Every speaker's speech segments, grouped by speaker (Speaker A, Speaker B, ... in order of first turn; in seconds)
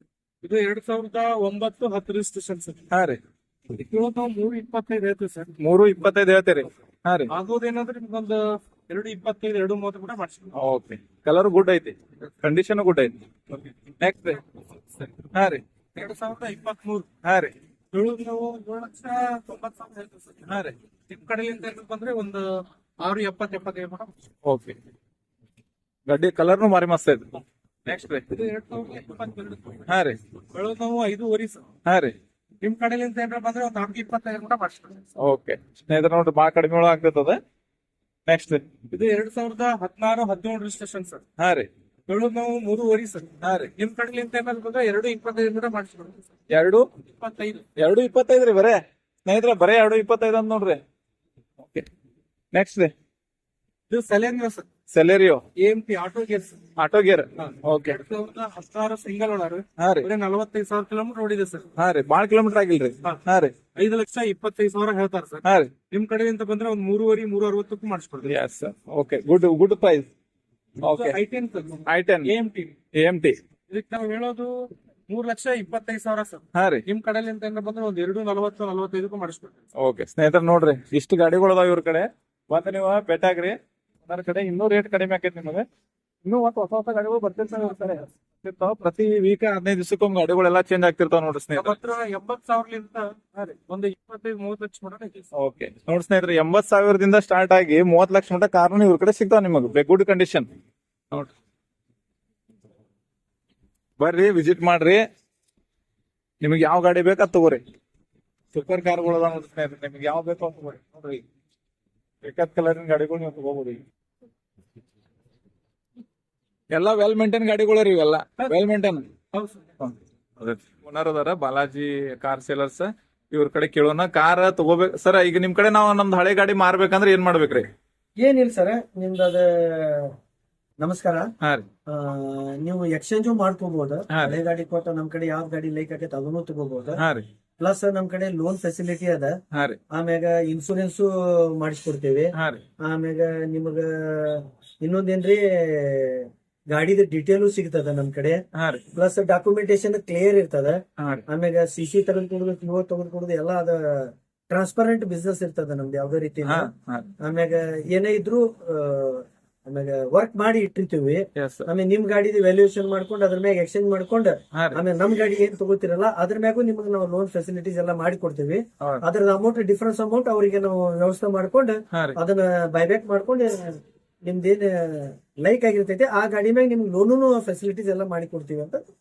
Speaker A: 0.4-2.8, 3.7-5.5, 7.3-10.5, 15.9-17.1, 17.9-20.5, 21.1-24.1, 28.3-29.9, 30.5-31.7, 32.6-35.0, 38.9-41.2, 42.1-46.3, 47.0-47.6, 53.9-54.7, 55.6-56.6, 57.4-61.7, 63.7-68.3, 70.8-72.8, 73.7-79.6, 91.5-95.3, 119.3-119.7
Speaker B: 2.9-3.2, 5.6-7.3, 10.6-13.2, 14.0-14.4, 15.3-15.6, 17.2-17.5, 20.5-20.8, 24.4-24.8, 26.1-28.2, 29.9-30.2, 31.9-32.1, 35.2-37.4, 38.3-38.7, 41.4-41.7, 43.4-43.7, 46.5-46.9, 47.8-50.8, 51.6-51.9, 52.5-52.9, 54.9-55.4, 56.8-58.0, 59.8-60.1, 61.8-63.5, 65.4-65.7, 68.2-70.1, 70.8-71.2, 71.9-72.3, 73.0-73.4, 76.5-76.8, 79.8-85.7, 86.2-91.8, 95.3-100.5, 104.0-105.0, 106.4-107.6, 108.5-111.2, 112.2-113.8, 116.7-119.0, 119.8-127.7, 131.4-131.7, 134.1-134.4, 137.0-137.3, 139.5-139.8, 142.3-142.6, 148.5-148.8, 151.0-151.2, 156.4-157.2, 161.4-161.7, 164.5-164.8, 171.9-172.2
Speaker C: 128.2-130.2, 130.8-131.3, 131.9-137.0, 137.6-139.4, 139.9-148.4, 148.9-156.7, 157.2-178.8